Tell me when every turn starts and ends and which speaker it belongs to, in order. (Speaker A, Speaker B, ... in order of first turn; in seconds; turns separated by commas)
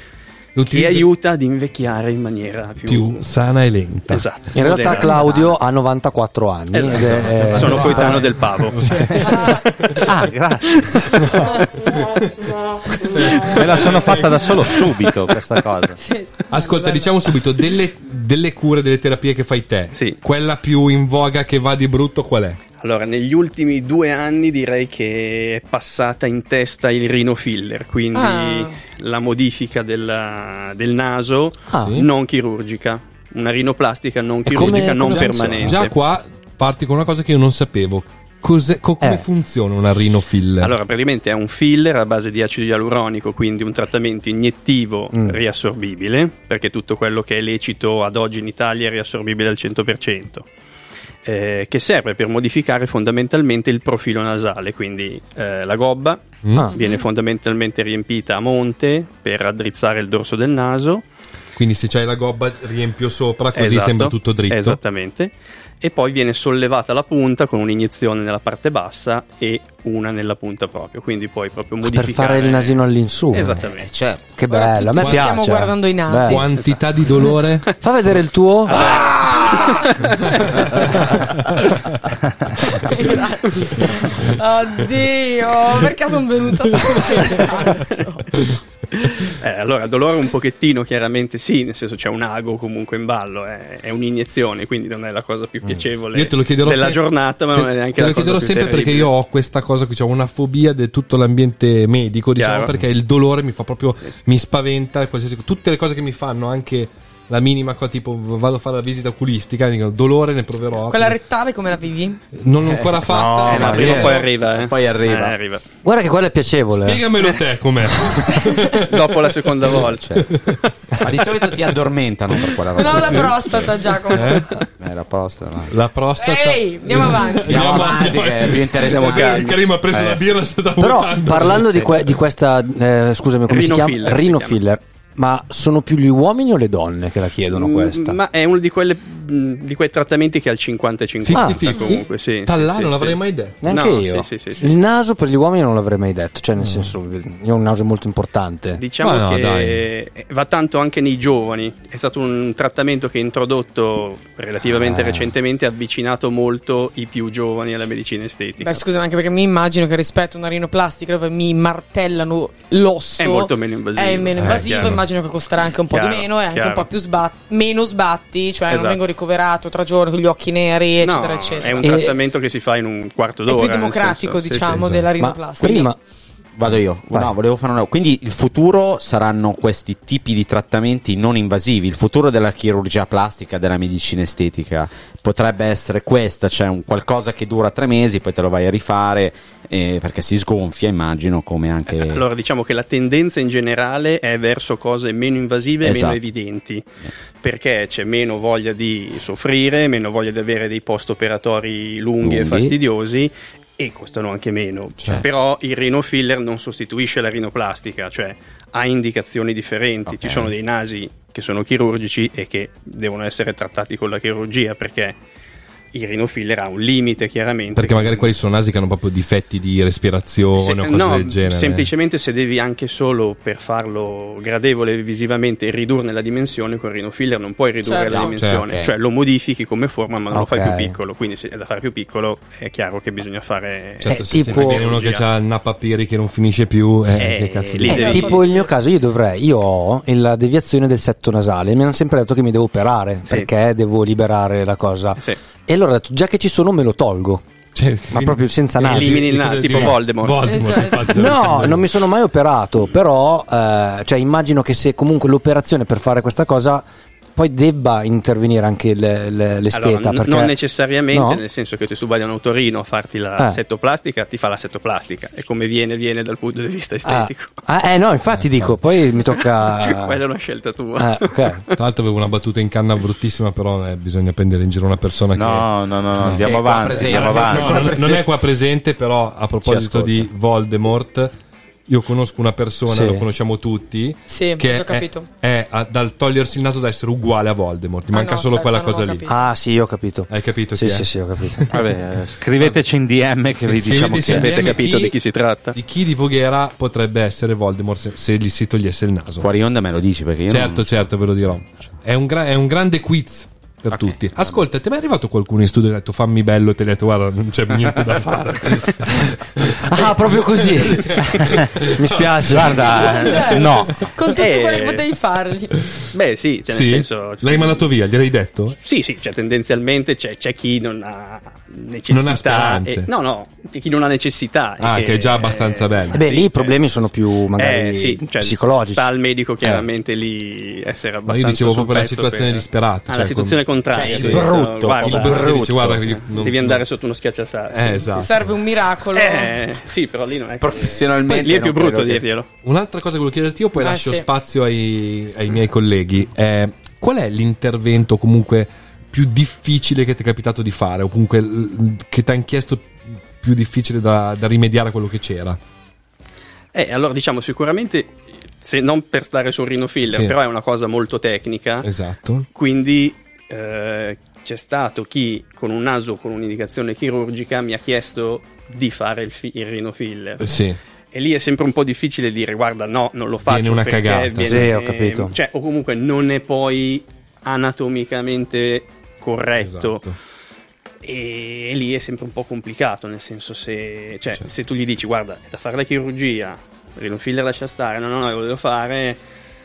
Speaker A: 0.6-1.1, Speaker B: 0.7-3.2, Speaker A: 2.8-5.2, Speaker B: 4.1-5.4, Speaker C: 4.5-8.4, Speaker B: 6.7-8.8, Speaker A: 6.8-10.0, Speaker D: 9.2-9.6, Speaker E: 10.1-11.2, Speaker A: 13.0-14.9, Speaker E: 13.5-16.0, Speaker D: 16.0-17.4, Speaker A: 16.5-22.6, Speaker B: 22.8-35.9, Speaker D: 28.1-28.8, Speaker C: 31.7-32.0, Speaker A: 31.8-32.1, Speaker C: 34.5-35.8, Speaker A: 34.5-40.7, Speaker B: 40.6-50.5, Speaker C: 45.1-45.4, Speaker B: 51.2-61.0, Speaker A: 56.4-56.7, Speaker D: 56.7-57.0, Speaker A: 61.5-64.8, Speaker B: 63.5-73.9, Speaker C: 71.8-73.6, Speaker F: 73.6-74.3, Speaker C: 74.4-76.4, Speaker D: 74.5-76.5, Speaker A: 75.0-75.3, Speaker A: 76.2-77.7, Speaker C: 77.8-79.0, Speaker F: 78.7-79.8, Speaker B: 78.8-80.5, Speaker D: 82.6-88.5, Speaker B: 89.3-99.1, Speaker A: 96.1-97.0, Speaker A: 97.5-111.2, Speaker B: 102.3-102.8, Speaker D: 110.9-112.2, Speaker A: 112.3-114.1, Speaker F: 112.7-115.4, Speaker E: 113.1-113.6, Speaker B: 113.4-115.6, Speaker C: 113.5-114.2, Speaker C: 115.8-117.0, Speaker A: 116.8-119.3, Speaker D: 118.2-118.8, Speaker B: 118.9-120.0, Speaker F: 120.0-120.4, Speaker A: 120.2-120.5, Speaker F: 121.0-123.7, Speaker D: 122.8-124.6, Speaker A: 122.9-123.3, Speaker A: 124.1-124.5, Speaker F: 124.8-125.8, Speaker A: 125.7-132.2, Speaker D: 126.2-127.9, Speaker F: 127.5-129.6, Speaker B: 128.9-129.5, Speaker E: 129.9-130.2, Speaker C: 130.8-138.2, Speaker B: 133.5-134.6, Speaker B: 137.5-144.7, Speaker A: 141.2-143.6, Speaker C: 141.3-141.6, Speaker C: 143.6-148.8, Speaker A: 146.6-146.9, Speaker B: 148.8-158.8, Speaker A: 149.0-149.9, Speaker C: 154.8-155.3, Speaker D: 158.6-172.0, Speaker B: 163.2-165.0, Speaker A: 164.4-165.0, Speaker B: 165.9-166.9, Speaker B: 168.7-169.0, Speaker B: 171.0-174.8, Speaker C: 171.8-172.2, Speaker D: 173.5-175.9, Speaker A: 174.6-175.1, Speaker C: 175.2-176.0, Speaker F: 176.6-192.2, Speaker B: 191.9-196.9, Speaker F: 195.8-196.2, Speaker B: 197.4-215.2, Speaker F: 202.2-202.8, Speaker A: 205.0-205.2, Speaker F: 210.1-210.5, Speaker B: 215.9-218.3, Speaker A: 217.7-221.9, Speaker B: 220.6-235.2, Speaker D: 227.8-228.3, Speaker F: 228.1-228.9, Speaker A: 228.4-228.7, Speaker C: 230.3-230.9, Speaker A: 234.0-238.2, Speaker C: 234.1-234.9, Speaker B: 237.2-238.5, Speaker D: 237.9-238.7, Speaker C: 237.9-247.4, Speaker B: 243.2-243.5, Speaker A: 247.7-251.9, Speaker C: 248.1-249.9, Speaker B: 248.8-250.8, Speaker D: 250.4-251.1, Speaker C: 251.1-260.6, Speaker B: 259.7-267.6, Speaker C: 261.1-261.4, Speaker C: 267.0-270.2, Speaker A: 268.3-268.8, Speaker B: 269.3-271.7, Speaker C: 271.0-271.6, Speaker A: 271.7-276.5, Speaker E: 275.3-277.9, Speaker F: 276.2-278.3, Speaker A: 277.0-281.3, Speaker F: 279.6-280.3, Speaker A: 281.9-289.3, Speaker C: 282.9-283.2, Speaker D: 284.3-285.3, Speaker D: 288.1-289.3, Speaker C: 289.3-291.7, Speaker A: 290.3-291.8, Speaker E: 291.7-294.7, Speaker A: 293.6-295.2, Speaker B: 294.2-295.8, Speaker A: 295.7-299.4, Speaker F: 299.4-300.8, Speaker A: 300.5-313.1, Speaker F: 303.9-304.6, Speaker C: 309.8-313.0, Speaker E: 312.5-314.1, Speaker D: 312.8-315.8, Speaker B: 314.3-315.1, Speaker B: 316.1-317.9, Speaker A: 316.7-318.8, Speaker B: 318.8-326.8, Speaker A: 322.1-323.1, Speaker A: 324.8-326.2, Speaker C: 326.1-329.1, Speaker B: 327.5-338.2, Speaker A: 331.3-334.5, Speaker F: 333.9-335.1, Speaker C: 334.1-336.0, Speaker A: 335.0-336.8, Speaker A: 337.7-338.3, Speaker D: 338.1-339.6, Speaker B: 339.1-342.5, Speaker F: 340.6-342.2, Speaker A: 342.6-355.6, Speaker D: 343.8-344.2, Speaker B: 356.7-361.9, Speaker A: 360.1-360.4, Speaker A: 361.8-362.5, Speaker B: 362.5-370.5, Speaker A: 370.4-370.8, Speaker B: 371.1-380.0, Speaker A: 373.4-374.7, Speaker C: 374.4-375.3, Speaker A: 379.6-380.1, Speaker B: 381.0-389.2